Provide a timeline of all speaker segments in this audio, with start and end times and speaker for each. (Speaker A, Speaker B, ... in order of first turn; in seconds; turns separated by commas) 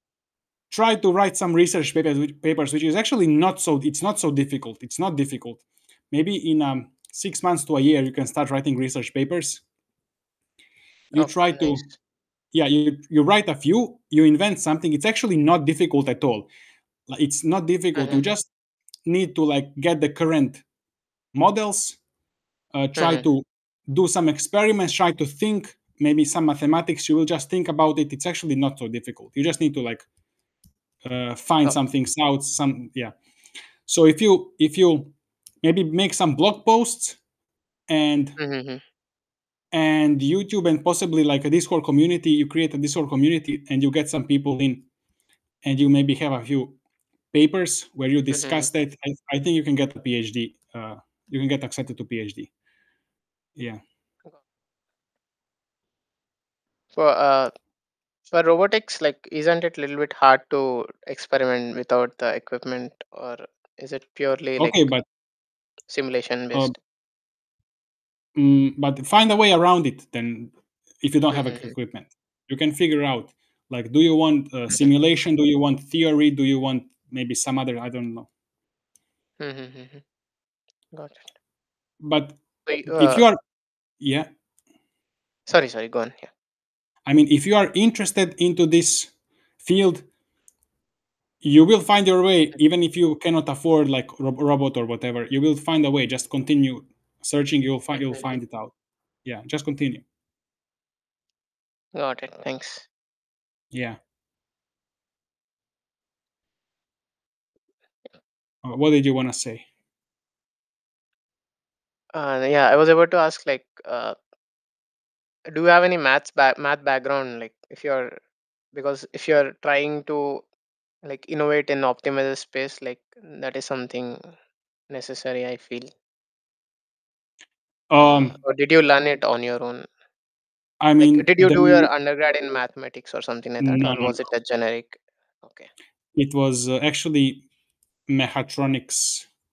Speaker A: 0.7-9.6, Speaker A: 11.1-11.8, Speaker B: 11.2-11.9, Speaker A: 12.5-16.5, Speaker A: 17.1-18.5, Speaker B: 17.9-18.3, Speaker A: 19.1-20.6, Speaker A: 21.3-22.0, Speaker A: 22.7-30.0, Speaker B: 23.0-23.3, Speaker A: 31.0-33.1, Speaker A: 33.9-37.2, Speaker A: 37.9-38.4, Speaker B: 38.4-38.8, Speaker A: 39.7-44.9, Speaker A: 45.6-46.8, Speaker A: 47.3-52.5, Speaker B: 48.3-48.7, Speaker A: 53.5-53.8, Speaker B: 56.9-57.5, Speaker B: 58.3-64.9, Speaker A: 64.6-65.0, Speaker B: 65.9-66.7, Speaker A: 68.3-78.3, Speaker B: 71.3-71.7, Speaker B: 79.4-80.0, Speaker B: 80.9-81.3, Speaker A: 82.0-83.4, Speaker B: 82.7-83.2, Speaker A: 84.0-84.3, Speaker B: 85.5-86.3, Speaker A: 87.1-89.1, Speaker A: 89.6-90.0, Speaker A: 91.4-98.7, Speaker B: 98.0-98.3, Speaker A: 99.2-100.0, Speaker B: 101.9-102.9, Speaker A: 103.7-104.0, Speaker A: 108.6-109.7, Speaker B: 112.1-114.2, Speaker B: 115.5-118.1, Speaker B: 118.7-120.4, Speaker B: 121.0-124.3, Speaker B: 124.9-125.9, Speaker A: 127.9-128.3, Speaker B: 128.0-129.8, Speaker A: 130.8-131.9, Speaker B: 131.0-135.7, Speaker A: 133.6-134.2, Speaker A: 136.2-137.4, Speaker A: 138.1-139.3